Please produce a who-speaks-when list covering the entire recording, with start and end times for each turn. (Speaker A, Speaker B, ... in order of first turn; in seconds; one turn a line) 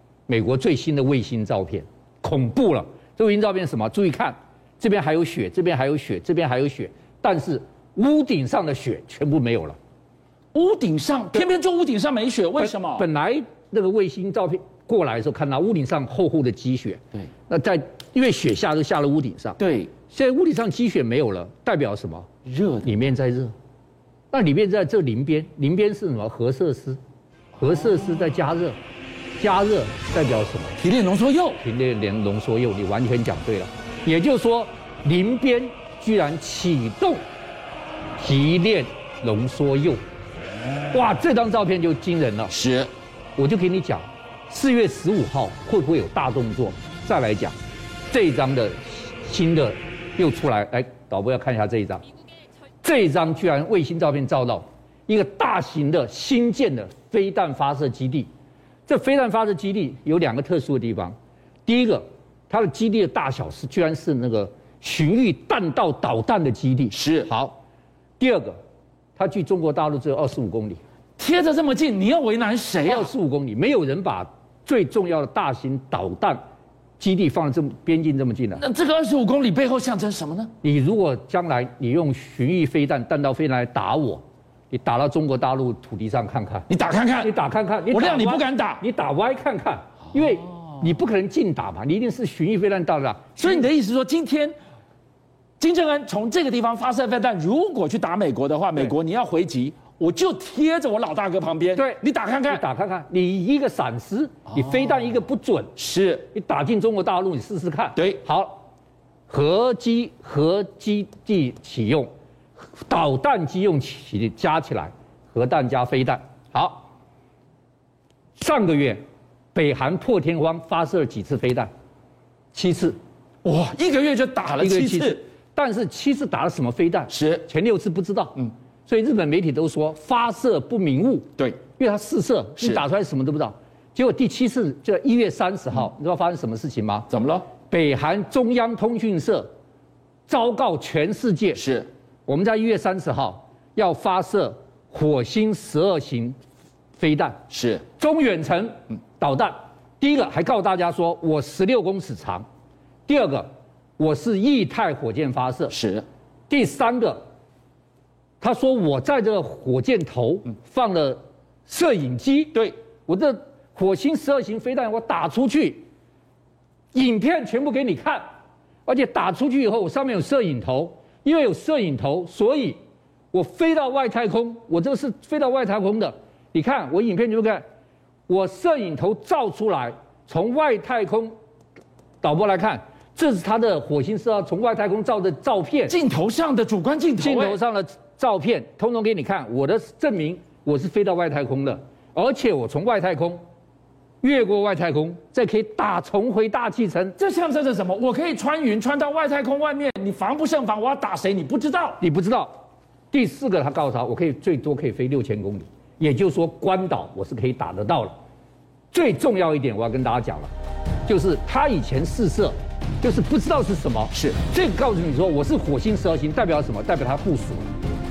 Speaker A: 0.3-9.8
Speaker B: 10.5-13.1
Speaker A: 12.6-22.3
Speaker B: 19.6-19.9
Speaker B: 22.5-22.9
Speaker A: 22.8-23.5
Speaker A: 24.3-27.0
Speaker A: 27.6-28.8
Speaker A: 29.4-30.8
Speaker B: 30.8-31.6
Speaker A: 31.6-37.2
Speaker A: 38.2-40.0
Speaker A: 40.9-42.5
Speaker B: 42.5-42.9
Speaker A: 43.4-47.5
Speaker A: 48.1-52.0
Speaker A: 52.8-58.3
Speaker A: 58.9-61.1
Speaker A: 61.7-67.6
Speaker B: 66.9-67.3
Speaker A: 68.2-68.6
Speaker A: 69.2-70.8
Speaker B: 71.2-73.1
Speaker A: 72.8-76.4
Speaker A: 77.0-78.6
Speaker B: 78.6-80.5
Speaker A: 80.6-86.7
Speaker B: 86.7-87.3
Speaker A: 87.2-93.7
Speaker B: 87.9-88.8
Speaker B: 93.4-94.5
Speaker B: 95.6-102.6
Speaker A: 101.8-105.7
Speaker B: 105.8-106.3
Speaker A: 106.3-108.7
Speaker B: 108.0-108.2
Speaker A: 109.3-112.1
Speaker A: 112.8-116.9
Speaker A: 118.4-119.0
Speaker A: 119.5-121.7
Speaker A: 122.5-123.0
Speaker B: 123.4-125.2
Speaker A: 124.6-137.1
Speaker B: 127.1-127.5
Speaker B: 132.6-132.8
Speaker B: 137.1-137.5
Speaker A: 137.7-139.5
Speaker A: 140.3-141.6
Speaker B: 141.6-141.9
Speaker A: 142.3-146.4
Speaker A: 147.0-147.4
Speaker B: 147.5-147.8
Speaker A: 148.0-152.4
Speaker A: 153.1-155.8
Speaker B: 155.7-156.1
Speaker A: 156.5-157.2
Speaker A: 158.4-165.9
Speaker A: 166.9-168.2
Speaker A: 168.9-172.8
Speaker A: 173.3-177.6
Speaker A: 178.3-181.3
Speaker A: 182.2-186.0
Speaker B: 185.9-187.6
Speaker A: 187.2-193.4
Speaker A: 194.2-197.2
Speaker B: 197.2-202.0
Speaker A: 202.0-202.5
Speaker A: 203.1-208.2
Speaker A: 208.9-210.5
Speaker A: 211.1-217.7